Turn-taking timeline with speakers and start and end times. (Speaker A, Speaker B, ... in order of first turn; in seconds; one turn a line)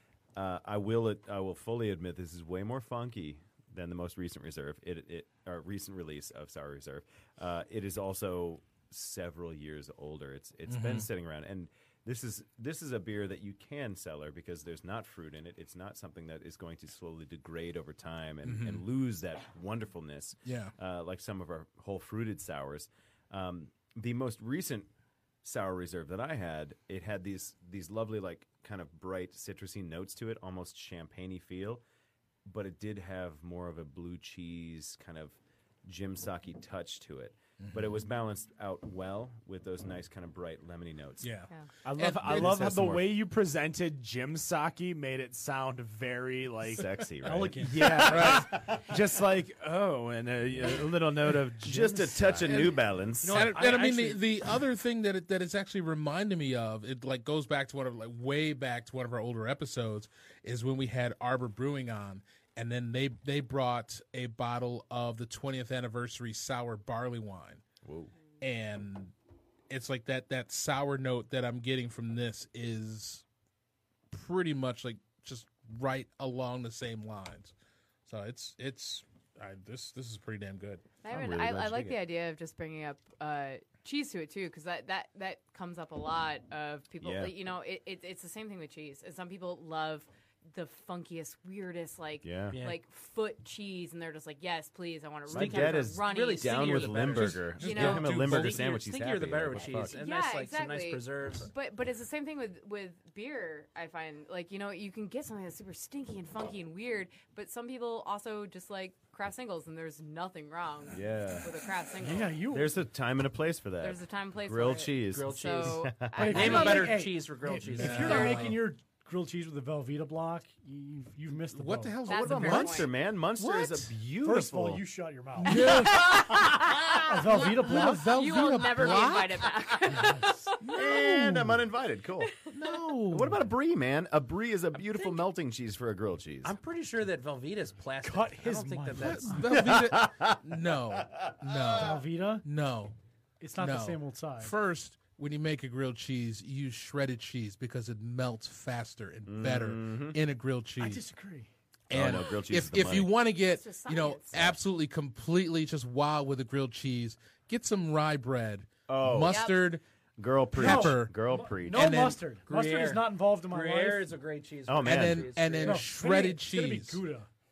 Speaker A: 0.3-24.9
Speaker B: 10.7-11.1
Speaker B: 18.4-18.8
Speaker B: 20.4-20.7
Speaker A: 25.4-31.8
Speaker A: 32.4-41.3
Speaker B: 37.6-38.0
Speaker B: 41.2-42.6
Speaker C: 41.8-46.9
Speaker A: 42.2-43.1
Speaker A: 46.6-48.8
Speaker D: 47.2-48.2
Speaker C: 47.6-52.5
Speaker B: 48.0-48.5
Speaker A: 51.6-53.5
Speaker B: 52.5-67.6
Speaker D: 53.2-54.2
Speaker A: 67.8-68.1
Speaker B: 68.4-69.1
Speaker B: 69.7-73.2
Speaker B: 74.1-77.5
Speaker B: 78.0-80.8
Speaker E: 81.0-98.5
Speaker A: 81.1-82.0
Speaker A: 87.0-87.3
Speaker A: 92.2-92.6
Speaker F: 92.5-92.8
Speaker A: 95.3-100.0
Speaker F: 95.3-101.5
Speaker B: 97.1-98.6
Speaker E: 99.7-112.5
Speaker A: 110.9-111.5
Speaker D: 112.0-112.8
Speaker A: 112.5-116.7
Speaker E: 113.8-117.1
Speaker F: 115.1-118.5
Speaker D: 116.2-122.0
Speaker B: 117.7-118.6
Speaker E: 118.0-118.5
Speaker B: 121.5-123.9
Speaker E: 122.0-122.9
Speaker A: 122.1-124.8
Speaker D: 124.2-126.1
Speaker B: 125.4-126.5
Speaker E: 125.6-126.9
Speaker A: 125.7-126.3
Speaker D: 127.0-128.3
Speaker B: 127.4-129.5
Speaker E: 128.0-130.9
Speaker D: 130.0-130.3
Speaker B: 130.1-131.6
Speaker A: 130.7-132.4
Speaker E: 132.3-132.9
Speaker B: 132.5-133.4
Speaker A: 133.1-136.5
Speaker F: 136.4-139.3
Speaker D: 138.0-139.5
Speaker B: 138.9-142.9
Speaker A: 139.4-141.8
Speaker D: 141.8-142.4
Speaker D: 143.4-144.5
Speaker B: 143.6-151.0
Speaker A: 149.2-150.2
Speaker D: 150.8-151.5
Speaker B: 151.9-159.8
Speaker A: 151.9-153.2
Speaker E: 153.4-154.5
Speaker A: 158.9-159.4
Speaker E: 159.2-159.7
Speaker A: 160.2-162.0
Speaker B: 160.5-162.3
Speaker D: 160.6-164.1
Speaker F: 162.4-165.8
Speaker A: 164.7-165.4
Speaker B: 164.8-167.0
Speaker D: 165.6-167.3